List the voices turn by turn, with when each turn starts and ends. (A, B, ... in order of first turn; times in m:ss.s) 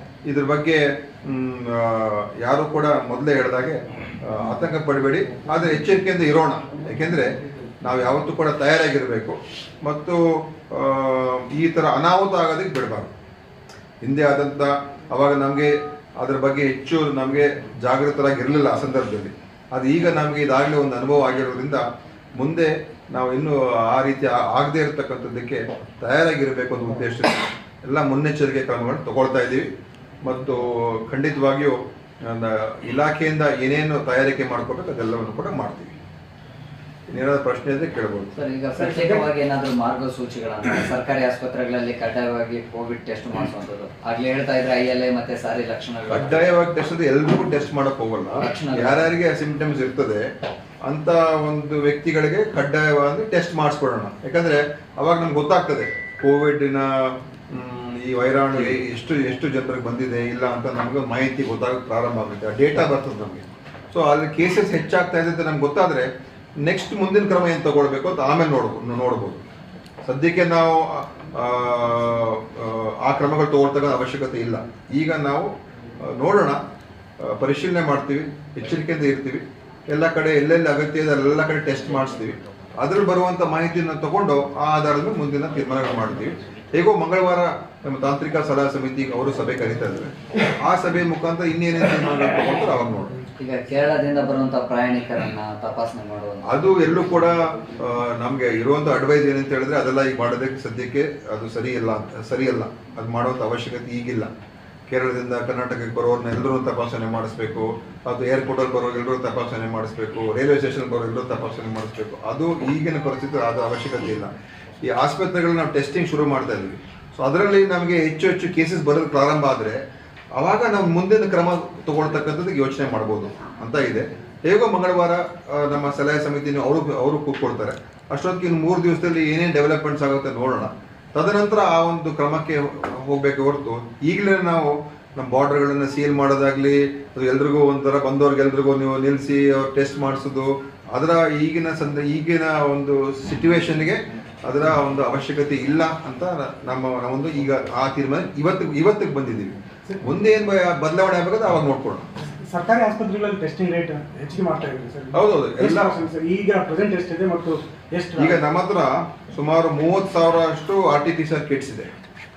0:00.3-0:13.1 A
0:14.0-0:21.8 A
0:22.4-0:29.7 A
0:30.2-0:35.9 A
0:37.1-0:38.3 A
0:38.3-0:46.4 B
0:38.8-0:39.2 C
0:46.1-0:50.2 A
0:48.4-0:49.1 B
0:50.8-1:06.1 A
1:06.6-1:09.4 A
1:10.0-1:16.6 A
1:17.2-1:33.1 A
1:33.4-1:36.4 B
1:36.5-1:44.3 A
1:44.9-1:59.8 A
2:00.4-2:32.1 A
2:32.4-2:38.4 C
2:35.1-2:36.0 A
2:38.2-2:41.9 A